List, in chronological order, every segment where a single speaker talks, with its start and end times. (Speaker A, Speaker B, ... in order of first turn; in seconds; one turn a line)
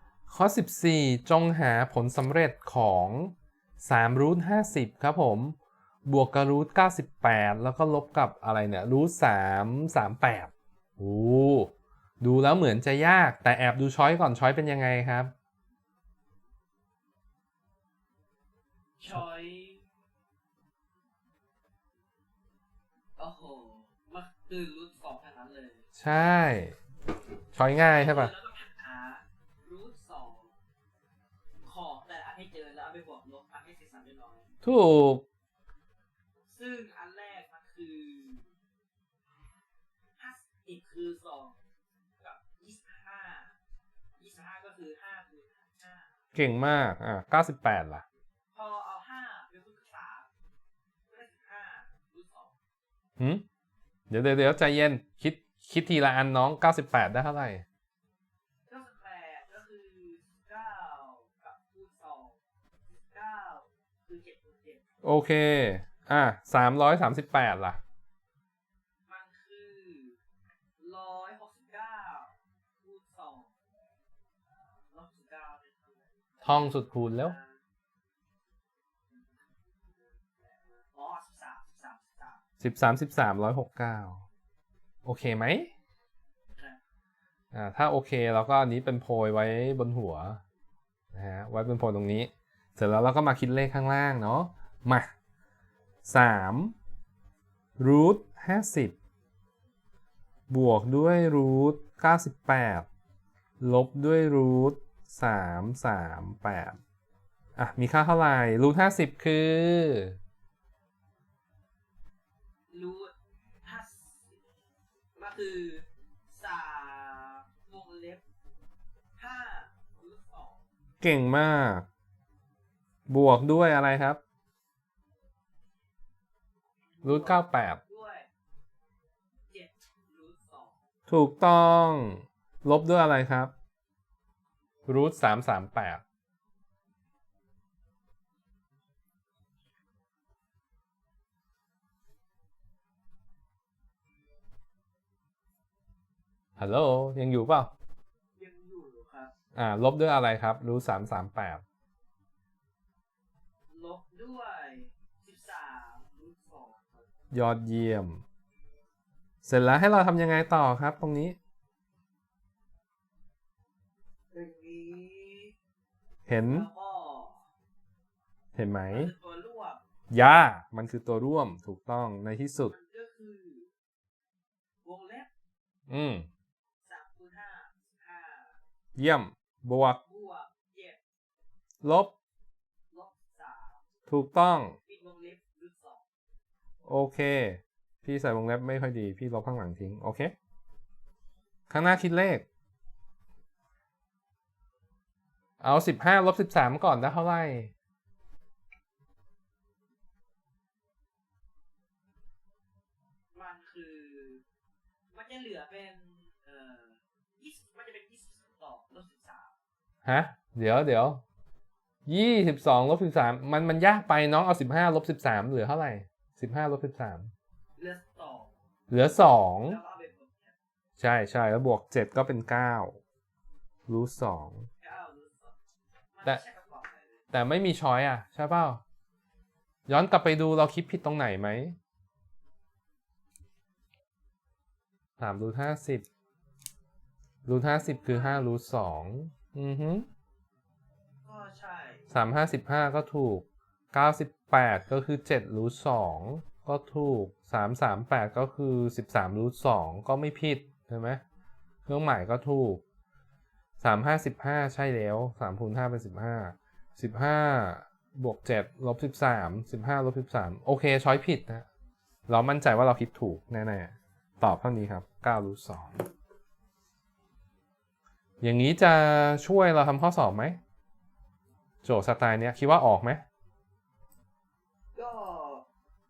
Speaker A: 0.3-15.3
Speaker B: 19.0-19.9
Speaker B: 23.2-25.9
Speaker A: 26.0-26.8
Speaker A: 27.5-28.3
Speaker B: 27.9-30.6
Speaker B: 31.6-34.5
Speaker A: 34.6-35.2
Speaker B: 36.5-38.5
Speaker B: 40.2-41.6
Speaker B: 42.2-43.6
Speaker B: 44.2-46.2
Speaker A: 46.3-48.0
Speaker B: 48.5-50.3
Speaker B: 51.1-52.5
Speaker A: 53.2-53.5
Speaker A: 54.1-57.6
Speaker B: 58.7-62.4
Speaker B: 63.1-64.8
Speaker A: 65.0-67.8
Speaker B: 69.1-70.2
Speaker B: 70.8-73.5
Speaker B: 74.7-77.6
Speaker A: 76.4-77.3
Speaker B: 79.1-82.4
Speaker A: 82.6-84.2
Speaker A: 85.0-85.7
Speaker A: 87.5-90.4
Speaker A: 91.1-95.1
Speaker A: 96.0-96.7
Speaker A: 97.8-99.0
Speaker A: 100.5-102.9
Speaker A: 103.6-106.8
Speaker A: 107.6-110.2
Speaker B: 112.7-114.4
Speaker B: 115.2-118.2
Speaker B: 119.2-120.6
Speaker A: 121.0-121.9
Speaker A: 123.1-124.2
Speaker B: 127.0-128.3
Speaker A: 127.0-127.8
Speaker B: 129.5-130.9
Speaker A: 131.1-133.5
Speaker A: 134.9-136.0
Speaker A: 146.6-147.7
Speaker B: 148.4-149.3
Speaker A: 149.6-151.6
Speaker B: 153.7-157.1
Speaker A: 157.3-158.2
Speaker A: 159.4-161.4
Speaker B: 164.3-165.6
Speaker A: 166.3-166.7
Speaker B: 166.4-167.5
Speaker A: 168.6-169.1
Speaker B: 168.9-169.8
Speaker A: 170.1-172.7
Speaker B: 172.7-173.7
Speaker B: 174.8-175.3
Speaker A: 175.9-176.3
Speaker B: 176.8-178.6
Speaker A: 179.0-180.0
Speaker B: 180.1-181.0
Speaker A: 181.8-182.1
Speaker B: 182.9-183.8
Speaker A: 184.1-184.8
Speaker B: 184.9-186.0
Speaker A: 186.8-190.3
Speaker A: 191.7-192.4
Speaker A: 195.6-197.7
Speaker B: 203.3-204.4
Speaker B: 205.1-209.6
Speaker A: 210.1-211.2
Speaker A: 212.1-217.3
Speaker B: 217.8-218.5
Speaker A: 218.9-219.8
Speaker B: 219.7-220.6
Speaker A: 221.0-223.0
Speaker A: 223.9-224.7
Speaker B: 224.8-225.6
Speaker B: 226.1-227.2
Speaker A: 227.3-228.8
Speaker A: 229.9-231.8
Speaker A: 235.2-236.1
Speaker A: 237.4-240.1
Speaker B: 237.8-238.5
Speaker B: 241.2-242.1
Speaker A: 242.1-251.2
Speaker A: 251.9-252.8
Speaker A: 253.8-261.7
Speaker A: 262.3-266.1
Speaker A: 268.4-270.6
Speaker A: 271.8-273.2
Speaker B: 274.9-275.7